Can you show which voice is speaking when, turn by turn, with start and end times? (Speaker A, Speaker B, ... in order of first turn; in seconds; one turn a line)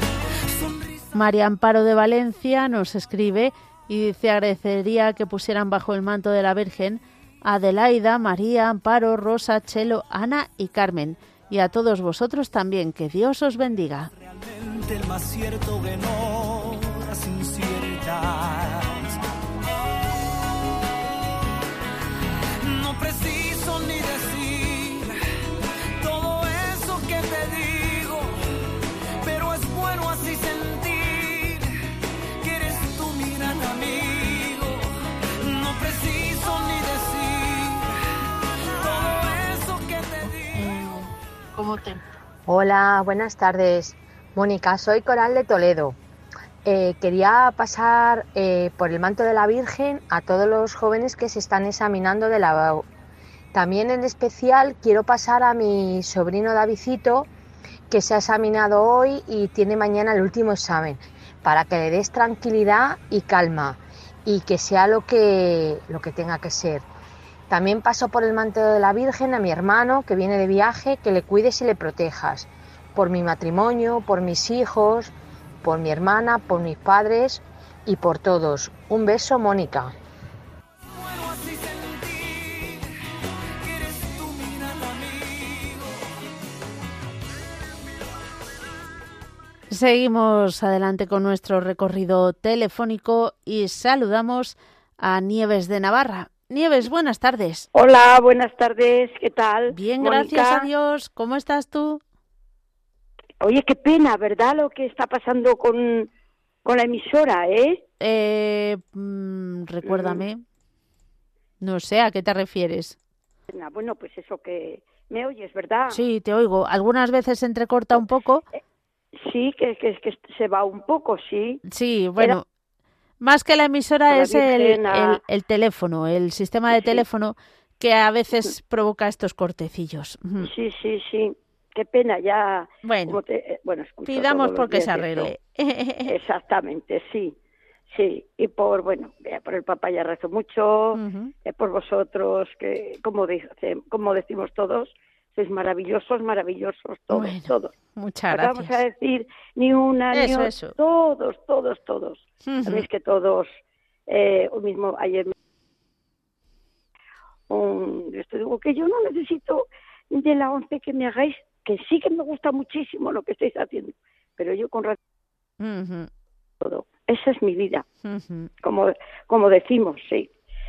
Speaker A: 0.5-1.1
Speaker B: 1.1-14.1
Speaker A: 14.2-19.2
Speaker A: 22.6-25.1
Speaker A: 26.0-28.4
Speaker A: 29.2-31.7
Speaker A: 32.4-37.9
Speaker A: 38.6-40.7
Speaker B: 40.5-42.0
Speaker C: 42.5-46.0
Speaker C: 46.6-52.9
Speaker C: 53.5-57.3
Speaker C: 57.9-66.8
Speaker C: 67.5-79.9
Speaker A: 80.9-82.9
Speaker A: 83.6-86.0
Speaker B: 89.7-97.7
Speaker D: 97.7-100.7
Speaker B: 99.7-102.0
Speaker D: 103.4-106.1
Speaker D: 106.6-107.8
Speaker B: 108.0-110.4
Speaker D: 109.9-110.2
Speaker B: 111.6-113.0
Speaker D: 113.5-116.0
Speaker B: 115.9-118.5
Speaker D: 119.2-121.6
Speaker B: 121.7-122.5
Speaker B: 123.2-130.5
Speaker D: 124.1-125.2
Speaker D: 126.7-127.0
Speaker D: 130.4-135.3
Speaker B: 132.8-133.2
Speaker B: 134.1-136.2
Speaker D: 136.1-137.4
Speaker D: 137.9-147.8
Speaker B: 140.9-141.3
Speaker B: 147.1-148.8
Speaker D: 148.3-155.3
Speaker B: 150.1-150.8
Speaker B: 152.4-152.8
Speaker D: 157.5-165.0
Speaker B: 165.6-166.1
Speaker D: 166.6-167.8
Speaker B: 168.1-168.5
Speaker D: 168.6-170.3